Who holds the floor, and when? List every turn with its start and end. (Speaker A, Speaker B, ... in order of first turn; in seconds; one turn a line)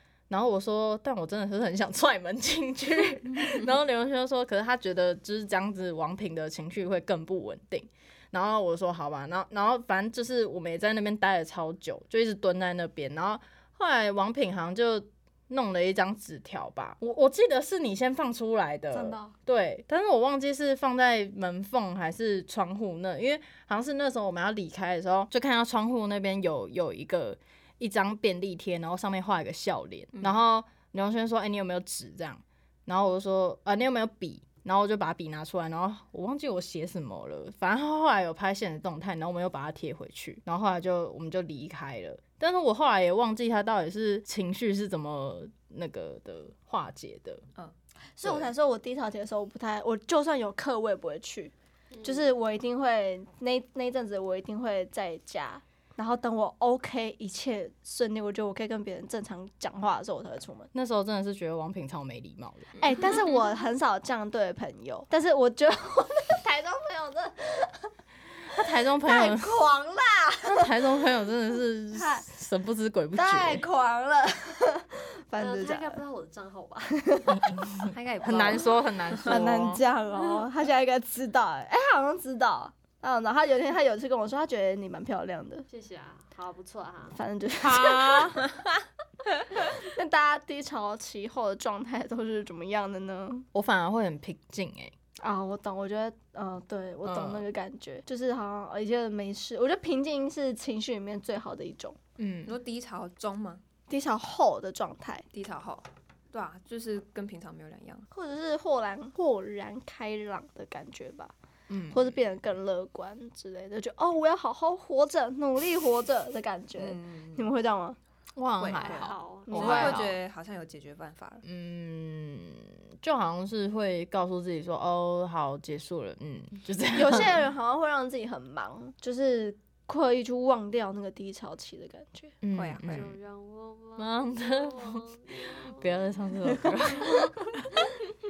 Speaker A: 0.3-47.4
Speaker B: 18.9-19.3
Speaker B: 48.2-60.7
Speaker A: 48.2-48.5
Speaker C: 51.9-52.2
Speaker A: 60.7-62.7
Speaker B: 62.8-67.9
Speaker A: 68.5-69.5
Speaker B: 69.0-70.7
Speaker A: 70.4-73.6
Speaker B: 71.9-72.2
Speaker B: 73.1-76.0
Speaker C: 75.4-77.1
Speaker B: 77.0-77.5
Speaker A: 77.3-79.8
Speaker D: 77.9-79.5
Speaker B: 79.3-85.7
Speaker C: 85.7-87.2
Speaker B: 87.1-88.4
Speaker A: 87.6-88.5
Speaker B: 89.6-93.5
Speaker A: 93.5-94.9
Speaker B: 95.2-102.0
Speaker A: 97.0-97.4
Speaker A: 102.2-102.6
Speaker D: 102.4-103.6
Speaker B: 103.9-105.3
Speaker D: 105.3-108.1
Speaker B: 108.1-111.3
Speaker A: 111.7-112.2
Speaker B: 111.9-118.0
Speaker D: 116.8-117.5
Speaker A: 118.3-120.2
Speaker D: 118.6-121.4
Speaker C: 118.7-120.0
Speaker B: 119.5-120.1
Speaker A: 121.4-127.4
Speaker B: 126.9-132.3
Speaker A: 132.4-133.2
Speaker D: 132.6-133.1
Speaker C: 132.8-136.0
Speaker A: 134.0-137.5
Speaker B: 136.9-137.6